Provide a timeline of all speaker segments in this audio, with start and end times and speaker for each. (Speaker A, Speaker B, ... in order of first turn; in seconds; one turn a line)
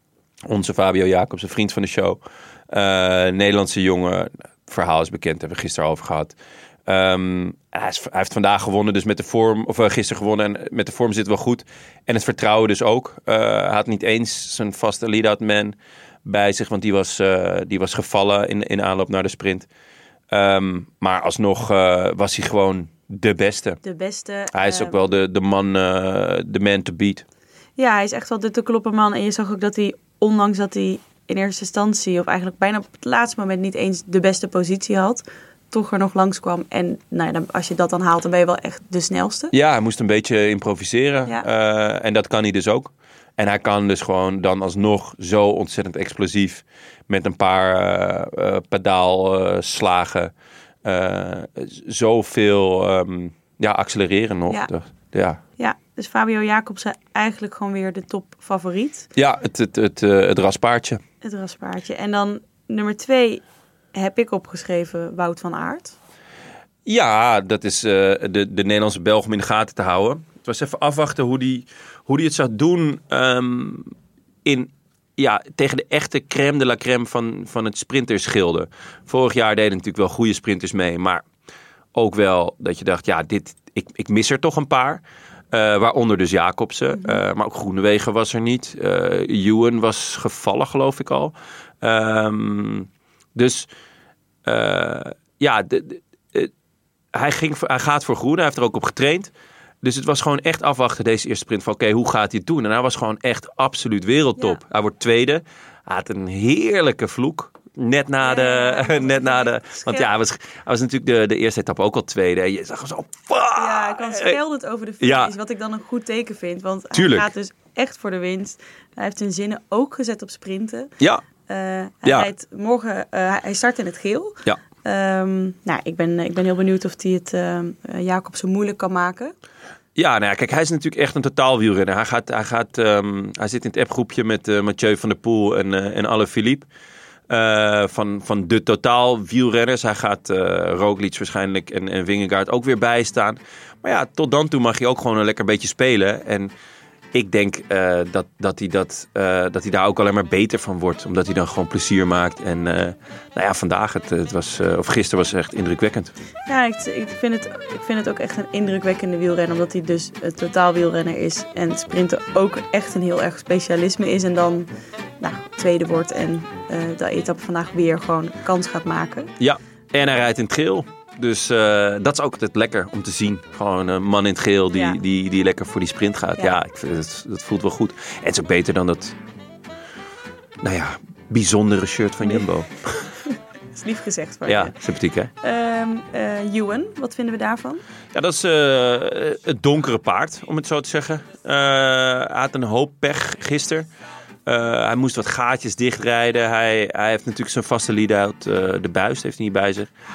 Speaker A: 0.5-2.2
Speaker A: 2.7-6.3
Speaker A: 6.9-19.7
Speaker A: 20.3-23.8
Speaker B: 23.8-25.1
Speaker A: 24.5-27.2
Speaker B: 27.8-39.5
Speaker A: 39.5-50.3
Speaker A: 50.9-55.4
Speaker B: 55.6-59.1
Speaker A: 59.2-61.0
Speaker B: 61.2-63.4
Speaker B: 63.9-66.0
Speaker A: 66.9-73.9
Speaker A: 74.5-81.2
Speaker A: 82.0-93.7
Speaker A: 94.5-96.5
Speaker A: 97.1-99.3
Speaker A: 99.8-114.4
Speaker B: 108.2-110.1
Speaker B: 113.6-120.9
Speaker A: 115.0-115.3
Speaker A: 116.9-117.3
Speaker A: 121.0-121.2
Speaker B: 121.5-129.3
Speaker A: 122.0-122.3
Speaker A: 130.0-136.7
Speaker A: 137.3-146.5
Speaker A: 147.1-156.1
Speaker B: 156.5-164.7
Speaker B: 165.2-169.3
Speaker A: 169.4-179.2
Speaker B: 174.7-175.0
Speaker A: 180.6-183.1
Speaker B: 183.7-184.8
Speaker A: 184.5-185.3
Speaker B: 185.4-187.8
Speaker A: 188.1-193.9
Speaker A: 194.5-199.9